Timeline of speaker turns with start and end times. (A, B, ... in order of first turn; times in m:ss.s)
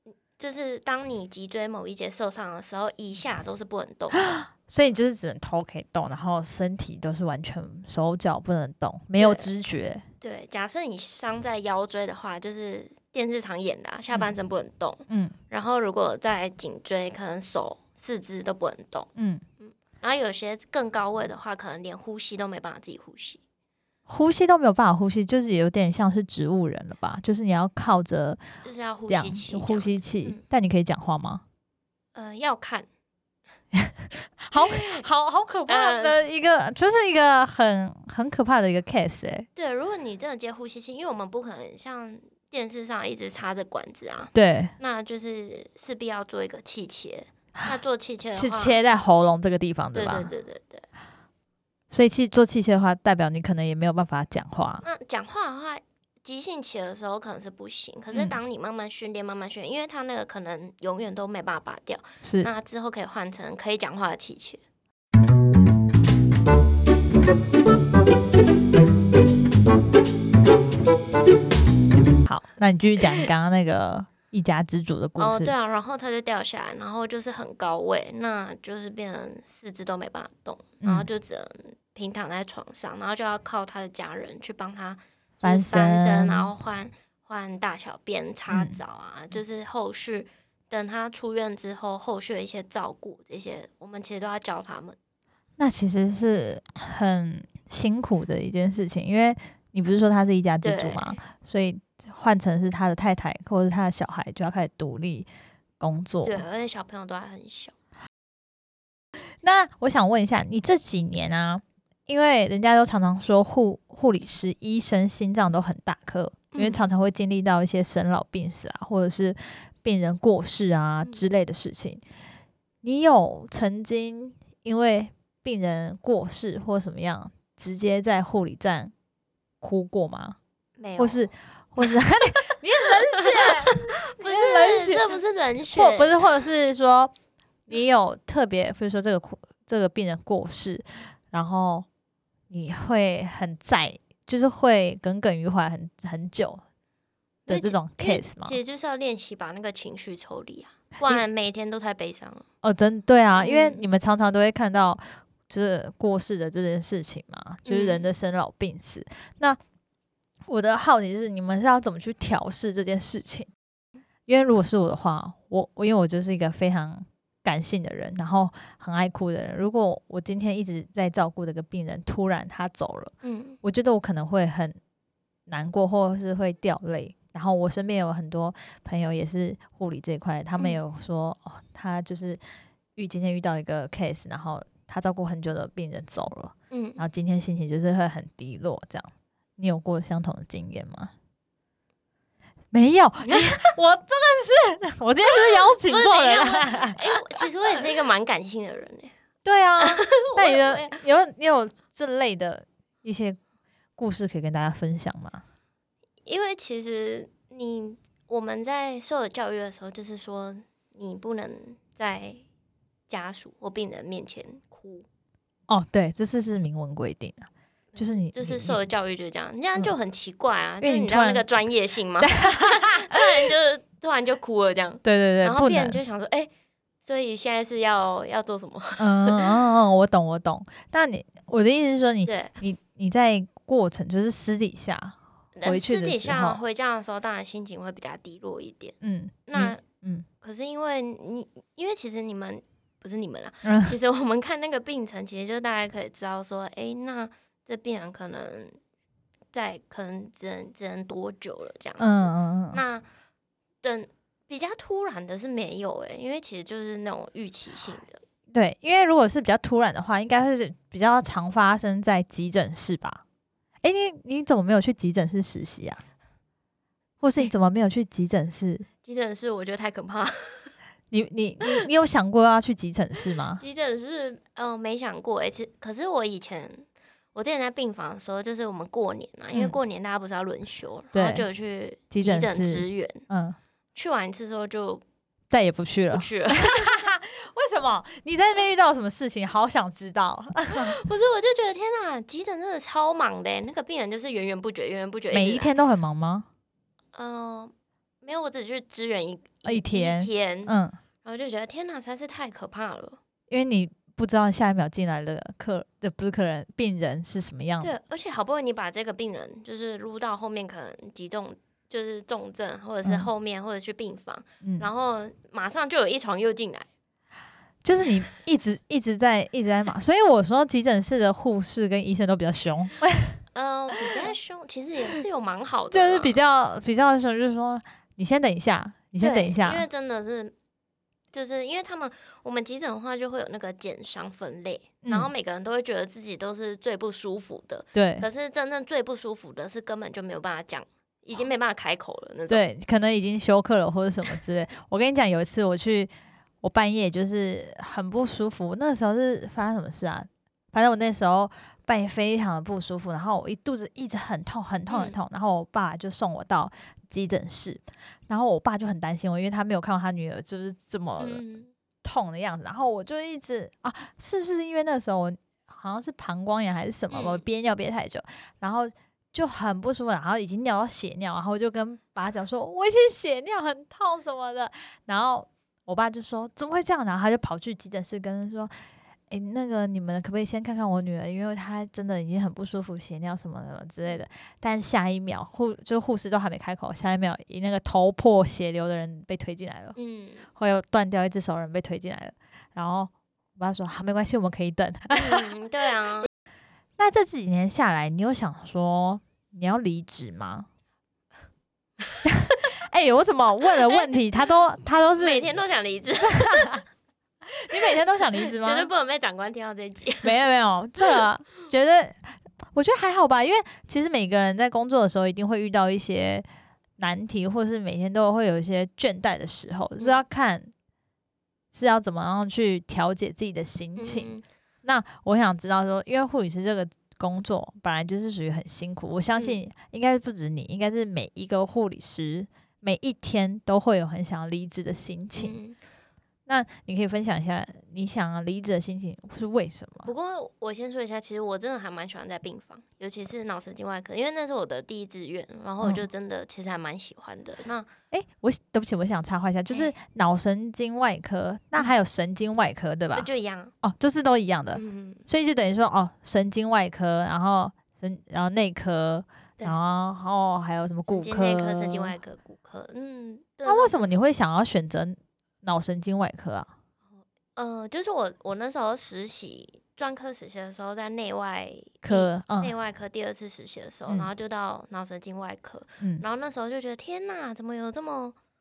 0:00.4-0:04.3 A
0:04.2-0:10.0 B
0:09.2-0:09.5 A
0:10.2-0:23.4 A
0:15.1-0:15.3 B
0:19.2-0:19.4 B
0:24.1-0:28.4 B
0:28.6-0:30.4 A
0:29.1-0:31.4 B
0:32.2-0:32.9 A
0:33.7-0:39.5 B
0:34.6-0:35.0 A
0:35.7-0:36.2 A
0:39.6-0:48.8 A
0:44.3-0:44.7 B
0:48.3-0:50.3 B
0:49.9-0:50.9 A
0:51.9-0:54.8 B
0:54.8-1:04.6 A
1:02.2-1:02.5 B
1:12.2-1:15.5 B
1:15.2-1:35.0 A
1:20.8-1:21.1 B
1:25.4-1:26.5 B
1:28.5-1:28.8 B
1:35.6-1:45.3 B
1:40.6-1:41.2 A
1:45.8-1:46.4 B
1:46.2-1:47.7 A
1:49.4-2:02.0 B
1:56.5-1:56.8 A
2:02.8-2:08.9 B
2:09.6-2:10.4 B
2:10.8-2:11.3 A
2:11.0-2:15.0 B
2:12.8-2:16.2 A
2:15.7-2:17.1 B
2:17.7-2:21.9 B
2:22.5-2:26.6 B
2:27.5-2:28.6 B
2:27.5-2:32.5 A
2:32.6-2:39.6 B
2:33.4-2:33.9 A
2:37.7-2:38.0 A
2:40.5-2:43.5 B
2:44.3-2:54.8 B
2:53.2-2:53.6 A
2:55.5-3:02.4 B
3:03.0-3:11.1 B
3:06.7-3:07.0 A
3:12.7-3:17.0 B
3:13.3-3:13.6 A
3:15.3-3:19.1 A
3:19.4-3:23.4 B
3:19.8-3:21.0 A
3:24.0-3:25.4 B
3:26.3-3:32.4 A
3:33.1-3:35.1 A
3:35.7-3:38.8 B
3:38.0-3:46.5 A
3:40.8-3:41.5 B
3:42.2-3:43.2 B
3:45.0-3:46.0 B
3:47.0-3:49.5 A
3:49.0-3:56.6 B
3:52.2-3:52.6 A
3:55.6-3:59.8 A
3:59.0-4:00.3 B
4:00.4-4:08.8 A
4:03.6-4:04.0 B
4:09.5-4:13.0 A
4:12.0-4:12.8 B
4:13.8-4:18.2 A
4:18.5-4:23.2 B
4:23.8-4:26.0 B
4:27.2-4:28.9 B
4:29.0-4:30.7 A
4:31.1-4:33.6 B
4:33.6-4:43.3 A
4:41.1-4:41.4 B
4:42.1-4:43.6 B
4:44.0-4:45.0 A
4:45.5-4:51.0 B
4:46.1-4:47.0 A
4:50.7-4:55.7 A
4:55.3-4:56.5 B
4:57.1-5:00.7 A
4:59.6-5:01.0 B
5:01.2-5:03.2 A
5:03.5-5:07.9 B
5:07.8-5:16.9 A
5:14.6-5:14.9 B
5:17.8-5:23.4 B
5:23.5-5:26.4 A
5:25.9-5:29.8 B
5:29.2-5:30.5 A
5:31.3-5:42.6 A
5:35.0-5:35.3 B
5:38.0-5:38.3 B
5:42.5-5:46.1 B
5:46.6-6:01.4 B
5:54.9-5:55.2 A
6:01.2-6:01.7 A
6:02.0-6:18.7 B
6:07.1-6:07.4 A
6:19.3-6:30.0 B
6:30.0-6:30.5 A
6:30.6-6:35.5 B
6:35.1-6:36.3 A
6:37.0-6:40.7 B
6:42.2-6:45.5 B
6:45.2-6:46.8 A
6:46.3-6:46.8 B
6:47.6-6:48.9 B
6:47.9-6:50.3 A
6:50.2-6:56.5 B
6:57.0-7:00.7 B
7:01.7-7:04.3 B
7:04.0-7:04.4 A
7:04.8-7:15.5 B
7:15.4-7:15.8 A
7:16.5-7:20.1 B
7:20.0-7:27.9 A
7:28.1-7:33.3 B
7:33.2-7:33.7 A
7:33.8-7:42.2 B
7:34.7-7:35.2 A
7:41.1-7:44.0 A
7:43.6-7:46.7 B
7:47.6-7:58.4 A
7:52.0-7:52.7 B